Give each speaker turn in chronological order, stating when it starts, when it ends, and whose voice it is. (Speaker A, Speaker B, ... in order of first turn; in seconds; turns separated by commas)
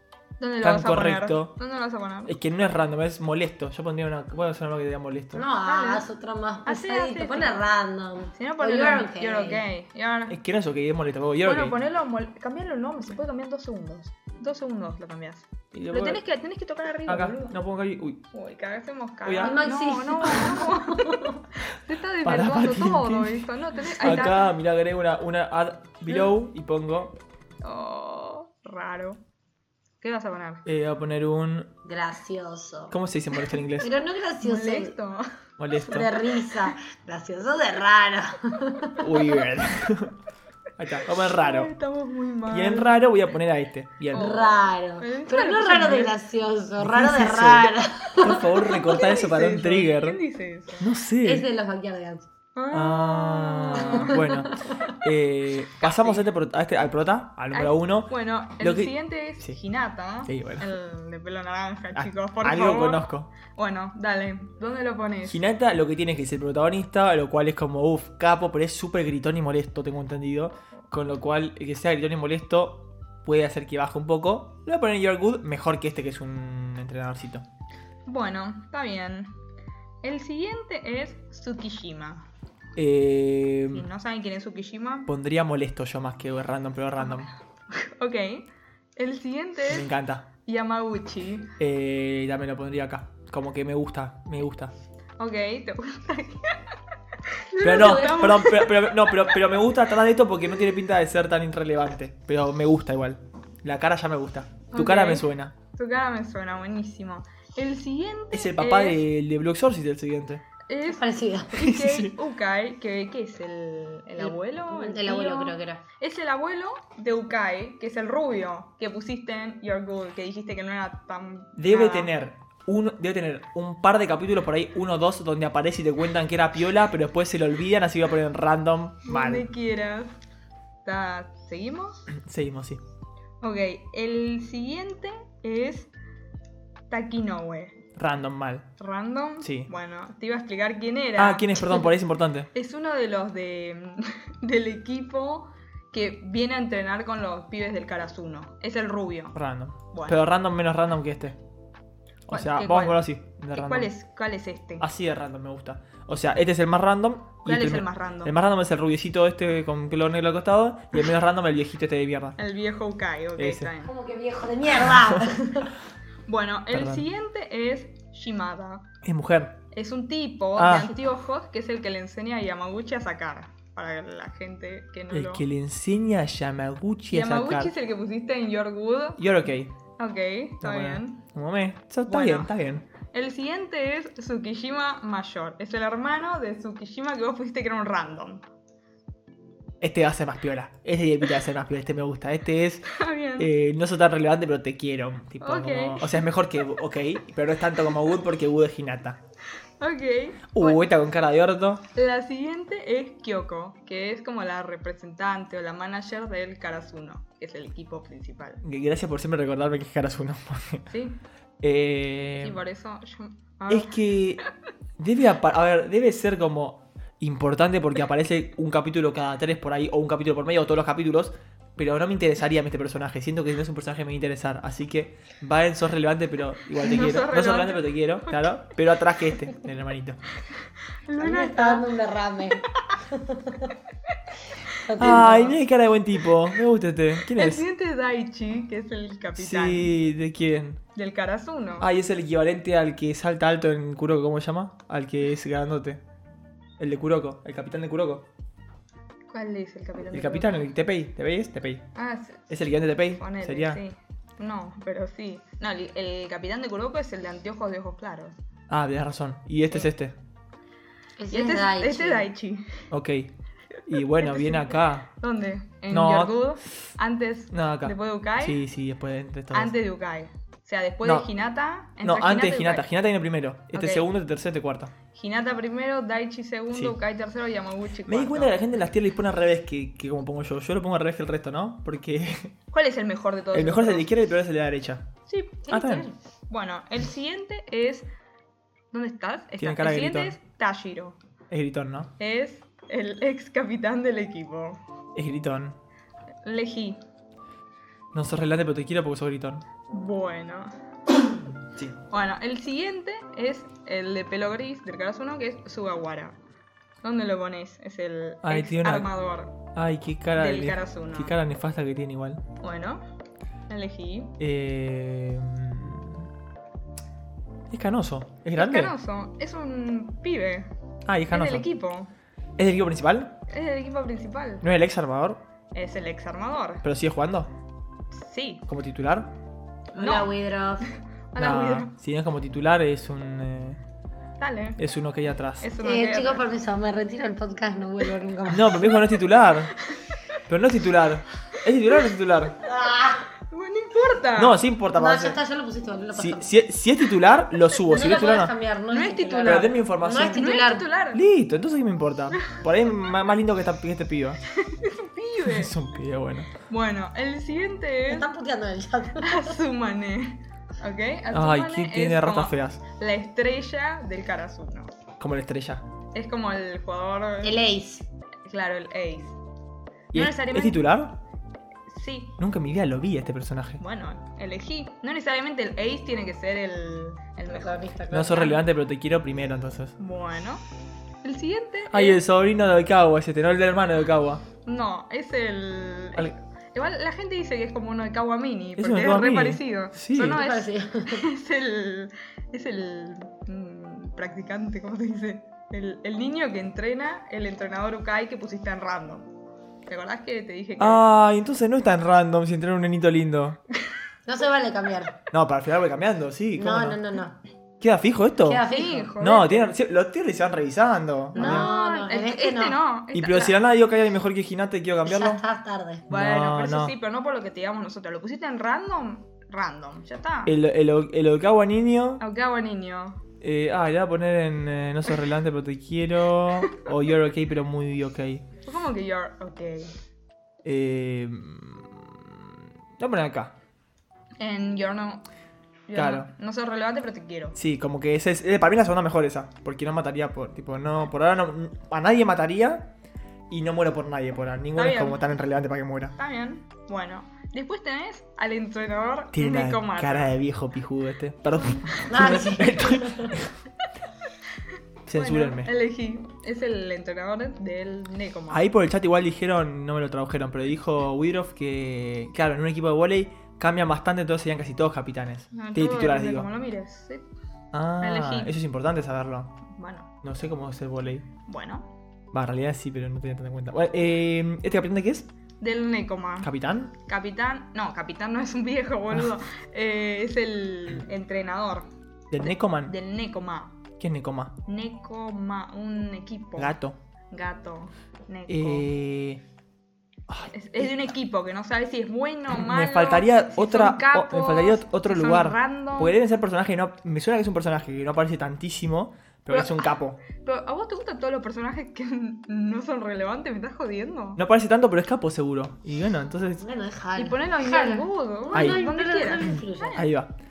Speaker A: 0.4-2.4, Speaker B: 0.6-1.5, Speaker B: 2.2-5.4, Speaker C: 5.3-9.7, Speaker A: 5.6-6.1, Speaker A: 6.6-7.6, Speaker A: 8.4-10.4, Speaker B: 10.3-11.8, Speaker A: 11.4-17.6, Speaker B: 15.7-16.2, Speaker B: 17.1-18.2, Speaker A: 18.3-24.5, Speaker B: 19.2-19.6, Speaker C: 19.4-21.4, Speaker B: 22.2-27.1, Speaker A: 27.6-29.2, Speaker A: 30.0-30.6, Speaker B: 30.6-31.7, Speaker C: 31.8-33.0, Speaker B: 32.9-33.9, Speaker C: 33.8-34.9, Speaker A: 34.4-35.2, Speaker B: 35.6-36.1, Speaker C: 35.8-39.0, Speaker A: 35.9-36.7, Speaker B: 39.0-40.1, Speaker A: 39.1-39.5, Speaker B: 40.8-41.7, Speaker A: 41.1-43.0, Speaker B: 42.5-44.3, Speaker A: 44.1-46.1, Speaker C: 44.1-48.5, Speaker B: 46.8-50.2, Speaker A: 48.7-50.9, Speaker B: 50.8-51.5, Speaker C: 51.2-52.3, Speaker A: 52.5-54.3, Speaker B: 52.7-59.6, Speaker C: 54.3-54.9, Speaker A: 55.8-56.2, Speaker A: 57.5-65.4, Speaker B: 60.3-60.7, Speaker B: 61.9-63.3, Speaker B: 65.2-77.4, Speaker A: 78.0-79.3, Speaker A: 80.0-82.2, Speaker B: 82.8-83.9, Speaker A: 83.7-85.1, Speaker B: 85.1-87.3, Speaker A: 87.0-89.9, Speaker B: 89.7-90.2, Speaker A: 90.4-91.5, Speaker B: 91.6-94.7, Speaker A: 95.2-96.7, Speaker C: 97.5-98.4, Speaker A: 97.5-99.4, Speaker B: 97.6-105.5, Speaker A: 104.7-109.0, Speaker B: 108.3-110.4, Speaker A: 110.7-122.1, Speaker C: 110.8-111.6, Speaker B: 111.6-112.1, Speaker C: 114.2-115.8, Speaker B: 121.6-129.5, Speaker A: 129.0-130.2, Speaker A: 130.8-132.1, Speaker B: 132.1-132.8, Speaker A: 133.4-135.9, Speaker A: 136.9-137.8, Speaker B: 138.0-138.7, Speaker A: 138.8-141.9, Speaker B: 139.4-139.7, Speaker B: 141.2-142.5, Speaker A: 142.5-149.3, Speaker B: 149.3-151.4, Speaker A: 149.9-150.2, Speaker B: 152.3-153.9, Speaker A: 152.3-154.8, Speaker B: 154.8-162.4, Speaker A: 157.4-158.3, Speaker A: 162.4-163.9, Speaker B: 163.4-163.7, Speaker C: 163.8-165.7, Speaker B: 164.8-165.4, Speaker A: 166.3-168.9, Speaker B: 166.7-167.0, Speaker B: 169.0-169.6, Speaker A: 169.7-175.4, Speaker B: 170.6-170.9, Speaker B: 175.1-177.7, Speaker A: 177.1-179.2, Speaker B: 179.2-179.7, Speaker A: 180.0-181.2, Speaker B: 180.6-182.8, Speaker A: 182.1-188.4, Speaker B: 189.8-199.2, Speaker A: 192.9-193.5, Speaker A: 195.4-196.2, Speaker A: 199.8-200.8, Speaker B: 200.5-201.8, Speaker A: 201.9-208.6, Speaker B: 208.6-210.9, Speaker A: 210.9-211.2, Speaker B: 211.6-212.6, Speaker A: 212.4-214.5, Speaker B: 213.7-214.4, Speaker B: 215.0-230.2, Speaker A: 226.8-228.6, Speaker A: 231.1-231.9, Speaker C: 231.2-233.7, Speaker C: 234.8-235.6, Speaker A: 235.0-235.3, Speaker B: 235.0-237.7, Speaker A: 237.2-239.9, Speaker B: 239.4-240.8, Speaker A: 240.9-241.9, Speaker B: 241.8-246.0, Speaker B: 246.8-248.3, Speaker A: 249.3-250.7, Speaker B: 250.1-251.8, Speaker A: 251.9-252.5, Speaker B: 252.5-253.8, Speaker A: 253.1-258.3, Speaker B: 258.7-260.1, Speaker C: 261.2-262.3, Speaker A: 261.3-262.9, Speaker B: 262.9-263.3, Speaker B: 263.9-265.1, Speaker A: 264.0-268.6, Speaker B: 265.9-266.4, Speaker B: 267.5-269.7, Speaker A: 269.5-272.9, Speaker B: 272.0-274.9, Speaker A: 273.7-274.1, Speaker A: 275.1-278.5, Speaker B: 278.1-282.5, Speaker A: 282.7-284.1, Speaker B: 283.5-285.1, Speaker A: 285.3-285.7, Speaker C: 285.6-286.1, Speaker B: 285.7-286.1, Speaker A: 286.5-288.1, Speaker A: 288.9-291.2, Speaker B: 289.6-290.4, Speaker B: 291.5-292.1, Speaker A: 292.2-294.8, Speaker B: 295.1-295.8, Speaker A: 296.4-297.0, Speaker B: 298.1-299.6, Speaker A: 299.9-300.7, Speaker A: 302.1-306.4, Speaker A: 307.0-309.6, Speaker B: 308.4-309.1, Speaker B: 309.7-312.4, Speaker A: 310.3-311.3, Speaker A: 312.6-313.0, Speaker A: 313.7-314.3, Speaker B: 314.4-316.3, Speaker B: 317.7-318.9, Speaker A: 318.6-320.7, Speaker B: 321.1-321.6, Speaker A: 321.3-322.1, Speaker B: 322.6-323.3, Speaker A: 323.5-324.6, Speaker B: 324.6-325.4, Speaker A: 325.7-326.8, Speaker B: 326.8-327.5, Speaker A: 328.1-328.6, Speaker B: 328.7-329.3, Speaker C: 329.9-330.9, Speaker A: 329.9-331.9, Speaker B: 331.4-333.8, Speaker A: 334.4-334.8, Speaker B: 334.8-335.7, Speaker A: 335.6-336.4, Speaker C: 335.8-338.8, Speaker B: 338.5-339.7, Speaker B: 340.5-342.5, Speaker C: 342.6-343.2, Speaker A: 343.5-344.6, Speaker B: 344.4-345.4, Speaker C: 344.9-346.5, Speaker B: 346.1-348.5, Speaker C: 347.9-350.9, Speaker A: 348.9-351.2, Speaker B: 349.4-350.5, Speaker B: 351.1-354.4, Speaker A: 354.5-355.7, Speaker B: 355.4-356.5, Speaker A: 356.6-358.3, Speaker C: 358.1-359.6, Speaker A: 359.2-364.9, Speaker B: 361.3-362.8, Speaker B: 365.2-365.9, Speaker A: 366.1-367.6, Speaker C: 367.4-368.1, Speaker A: 368.4-369.4, Speaker B: 370.1-371.2, Speaker A: 370.1-370.8, Speaker A: 371.9-372.4, Speaker B: 372.4-373.8, Speaker A: 373.8-378.6, Speaker C: 377.5-378.5, Speaker B: 378.1-379.9, Speaker A: 380.0-380.6, Speaker A: 381.2-382.2, Speaker B: 381.9-384.4, Speaker A: 384.6-399.3, Speaker B: 388.8-390.4, Speaker C: 390.2-391.2, Speaker A: 399.9-401.0, Speaker B: 400.8-403.6, Speaker C: 404.2-405.1, Speaker B: 405.3-407.0, Speaker C: 406.6-407.4, Speaker B: 407.8-408.6, Speaker C: 408.4-409.1, Speaker A: 408.7-409.8, Speaker B: 409.2-411.7, Speaker C: 411.3-412.8, Speaker A: 411.3-413.6, Speaker B: 413.1-415.4, Speaker C: 415.0-416.0, Speaker B: 416.1-416.9, Speaker A: 416.1-420.5, Speaker B: 420.4-422.2, Speaker A: 422.2-423.2, Speaker B: 423.4-428.4, Speaker A: 428.6-429.9, Speaker B: 430.6-433.5, Speaker A: 434.4-435.2, Speaker A: 435.9-437.6, Speaker B: 435.9-436.3, Speaker B: 437.6-442.9, Speaker B: 443.5-446.1, Speaker A: 444.8-445.4, Speaker A: 446.2-450.3, Speaker B: 449.3-453.6, Speaker A: 451.6-452.4, Speaker C: 452.1-453.4, Speaker B: 455.1-455.7, Speaker A: 455.1-458.6, Speaker B: 458.5-466.5, Speaker A: 465.5-467.2, Speaker B: 467.7-469.5, Speaker A: 468.0-468.5, Speaker A: 469.7-470.1, Speaker B: 470.2-471.2, Speaker A: 471.5-471.9, Speaker B: 472.3-475.3, Speaker A: 475.6-476.5, Speaker B: 476.4-476.9, Speaker A: 477.0-481.9, Speaker B: 482.3-482.9, Speaker A: 482.4-483.8, Speaker B: 484.0-484.5, Speaker A: 484.7-486.8, Speaker B: 486.6-486.9, Speaker A: 487.3-488.9, Speaker B: 488.5-489.4, Speaker B: 490.3-491.1, Speaker A: 490.5-496.1, Speaker B: 492.5-500.2, Speaker A: 499.5-504.4, Speaker B: 504.4-506.6, Speaker C: 506.6-510.0, Speaker A: 507.1-510.1, Speaker B: 508.5-508.8, Speaker B: 509.4-510.3